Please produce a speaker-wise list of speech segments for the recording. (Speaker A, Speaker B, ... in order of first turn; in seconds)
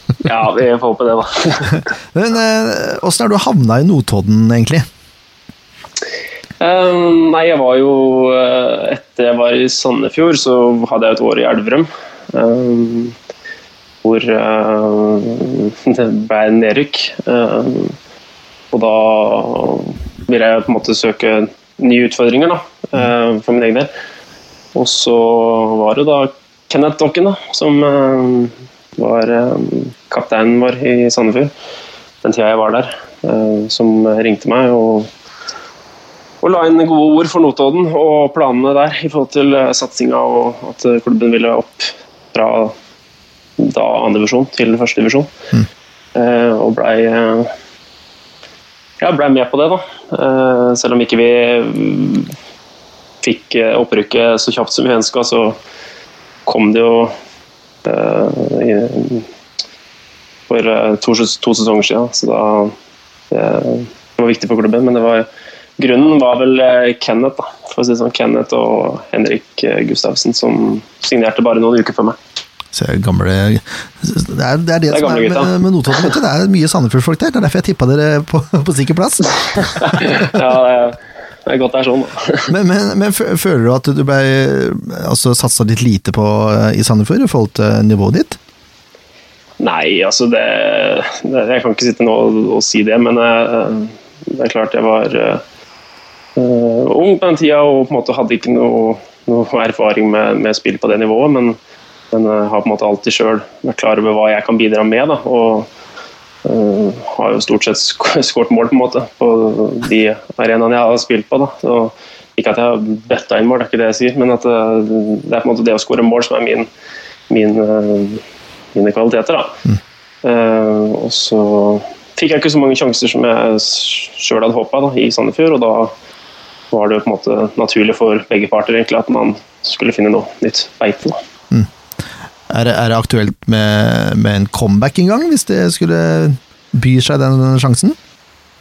Speaker A: 0.2-1.9, 6.6-13.1, 14.0-17.9, 18.7-23.9, 24.7-31.5, 32.2-35.1, 36.4-42.7, 43.6-45.3, 46.1-47.5, 49.0-52.3, 53.2-55.6, 56.5-57.1, 57.8-59.2, 60.5-62.7, 63.3-65.3, 65.8-72.2, 74.9-76.1, 79.7-82.5, 89.6-95.4, 96.3-101.6, 102.1-105.7, 106.4-116.7, 117.3-118.2, 118.7-119.6, 120.2-125.9, 126.7-131.2
Speaker B: 2.1-4.8, 72.7-80.0, 82.5-88.4, 132.5-137.9